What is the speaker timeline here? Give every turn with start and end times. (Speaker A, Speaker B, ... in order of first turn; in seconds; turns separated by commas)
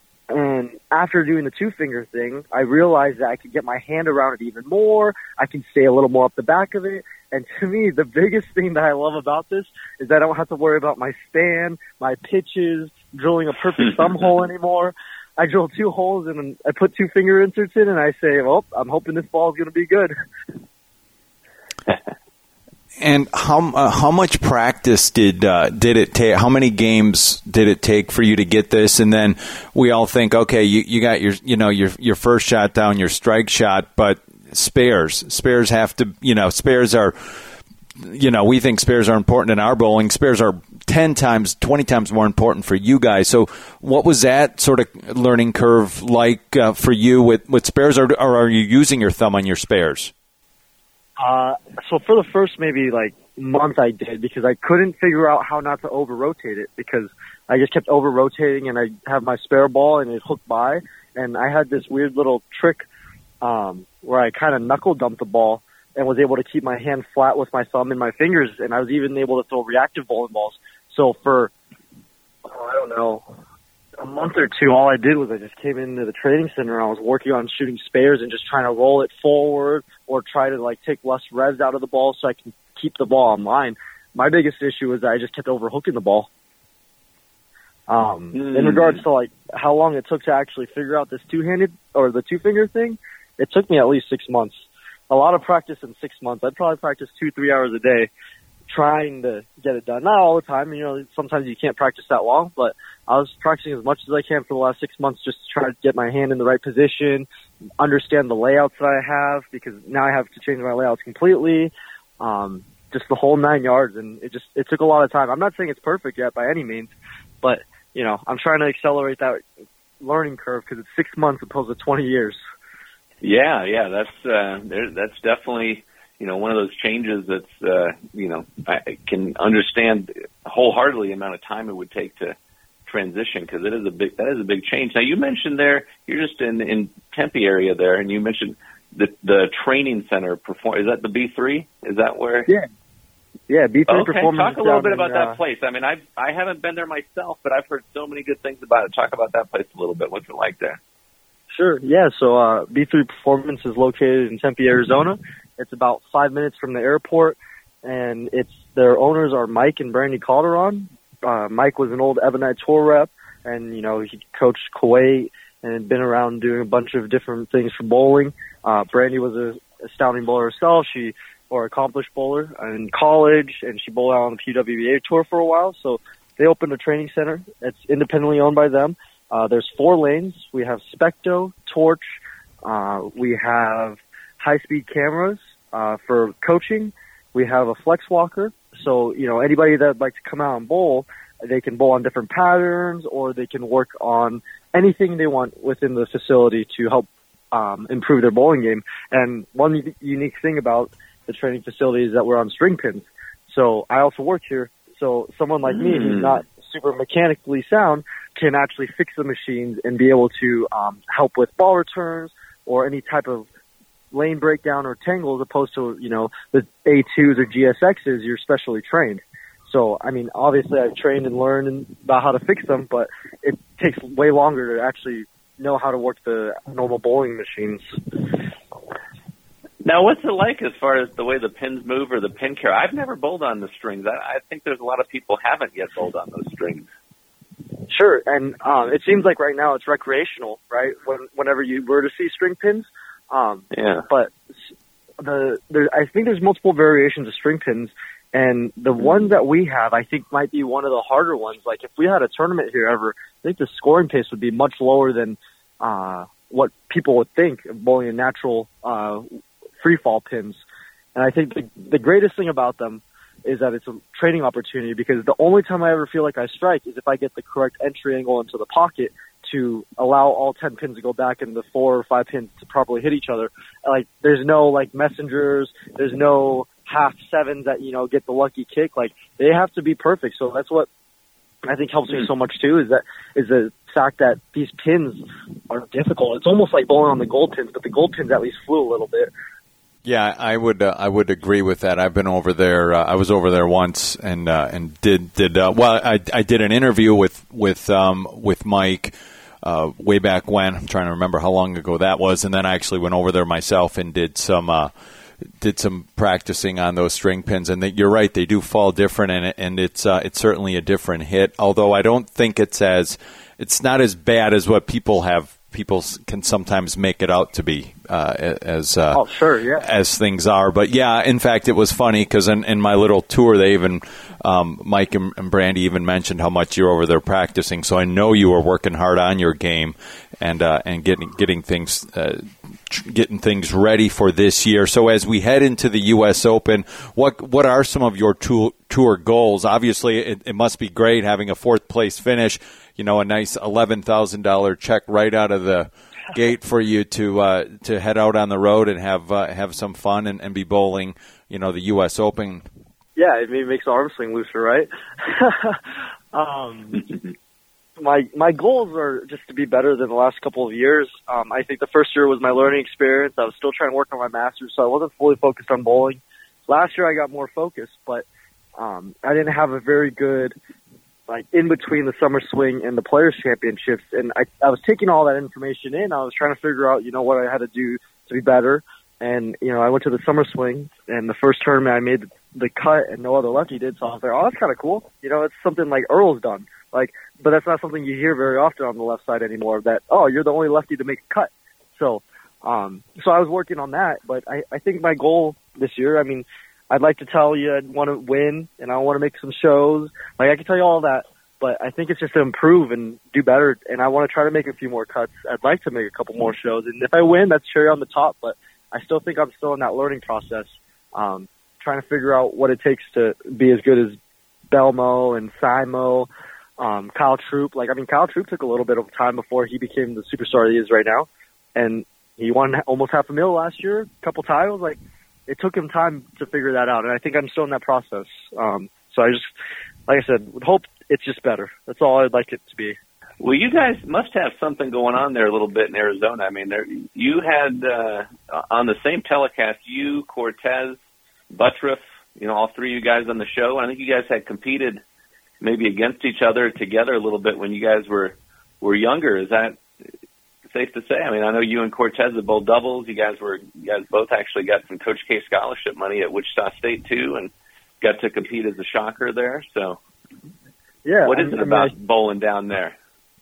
Speaker A: 0.3-20.1, Speaker B: 23.0-37.4, Speaker B: 38.0-50.1, Speaker A: 51.2-62.9, Speaker A: 63.4-71.5, Speaker A: 72.5-73.3, Speaker A: 74.0-86.3, Speaker A: 87.9-98.1, Speaker C: 88.3-89.0, Speaker A: 98.7-107.3, Speaker A: 107.8-119.4, Speaker A: 120.0-122.4, Speaker C: 123.2-132.4, Speaker C: 132.9-142.5, Speaker A: 143.5-145.4, Speaker C: 143.9-150.8, Speaker A: 151.5-213.5, Speaker C: 205.7-206.4, Speaker A: 214.1-227.9, Speaker C: 229.8-236.9, Speaker A: 237.9-244.3, Speaker C: 243.7-244.1, Speaker A: 245.2-259.3, Speaker A: 259.8-260.6, Speaker A: 261.1-280.9, Speaker A: 281.7-289.3, Speaker B: 290.1-304.9, Speaker B: 305.6-319.2, Speaker A: 319.1-319.9, Speaker B: 319.8-352.6, Speaker A: 353.2-357.1, Speaker A: 358.0-368.2, Speaker A: 368.8-370.6, Speaker A: 371.3-414.2, Speaker A: 414.7-429.5, Speaker A: 430.1-433.0, Speaker C: 433.4-441.0, Speaker C: 441.5-445.0, Speaker C: 445.6-449.8, Speaker C: 450.7-460.0, Speaker A: 461.0-461.9, Speaker C: 461.2-463.0